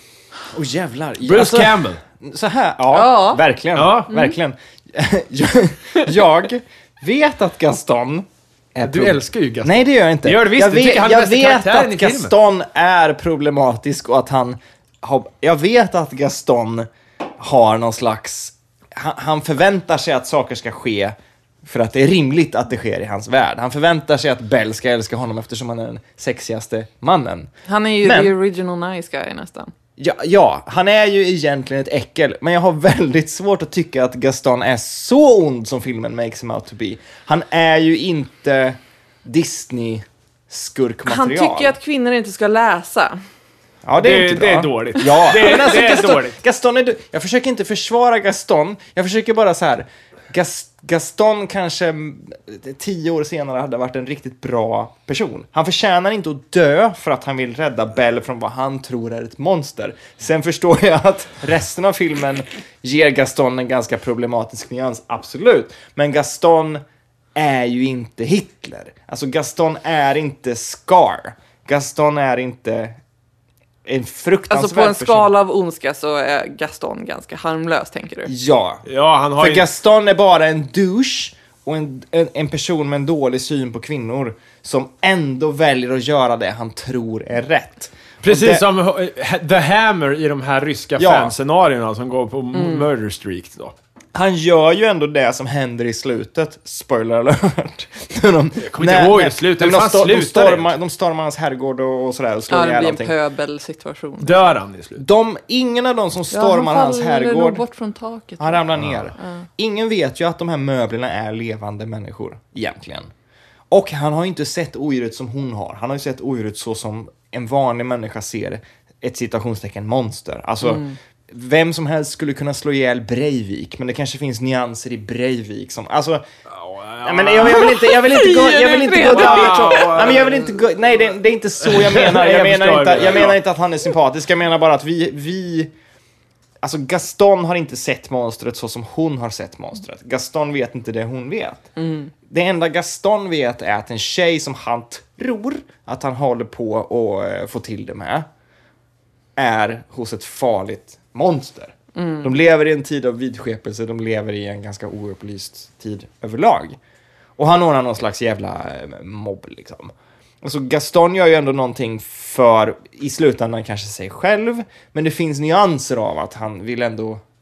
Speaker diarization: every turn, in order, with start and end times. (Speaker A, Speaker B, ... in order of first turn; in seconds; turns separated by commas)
Speaker A: 0.5-27.5, Speaker B: 1.2-2.0, Speaker C: 2.9-3.4, Speaker B: 3.8-4.2, Speaker B: 8.8-12.3, Speaker C: 27.7-29.7, Speaker A: 28.0-28.3, Speaker A: 30.0-41.8, Speaker C: 41.1-43.2, Speaker A: 43.8-66.8, Speaker B: 44.0-46.4, Speaker A: 67.3-73.0, Speaker A: 73.8-75.3, Speaker C: 74.5-78.3, Speaker A: 78.3-78.8, Speaker B: 78.9-79.7, Speaker A: 79.4-88.6, Speaker B: 88.2-93.8, Speaker A: 91.0-91.3, Speaker C: 92.5-92.9, Speaker A: 94.2-103.1, Speaker B: 98.6-100.7, Speaker C: 102.5-104.5, Speaker B: 104.2-105.0, Speaker A: 105.0-107.6, Speaker C: 106.3-109.5, Speaker A: 108.4-113.1, Speaker A: 113.7-126.2, Speaker C: 120.7-120.9, Speaker B: 126.5-127.8, Speaker A: 127.0-135.7, Speaker C: 127.4-130.2, Speaker B: 128.9-130.6, Speaker B: 131.6-133.4, Speaker A: 136.6-141.7, Speaker C: 141.8-142.1, Speaker A: 142.3-148.3, Speaker A: 149.4-156.8, Speaker C: 151.9-152.3, Speaker A: 157.4-167.2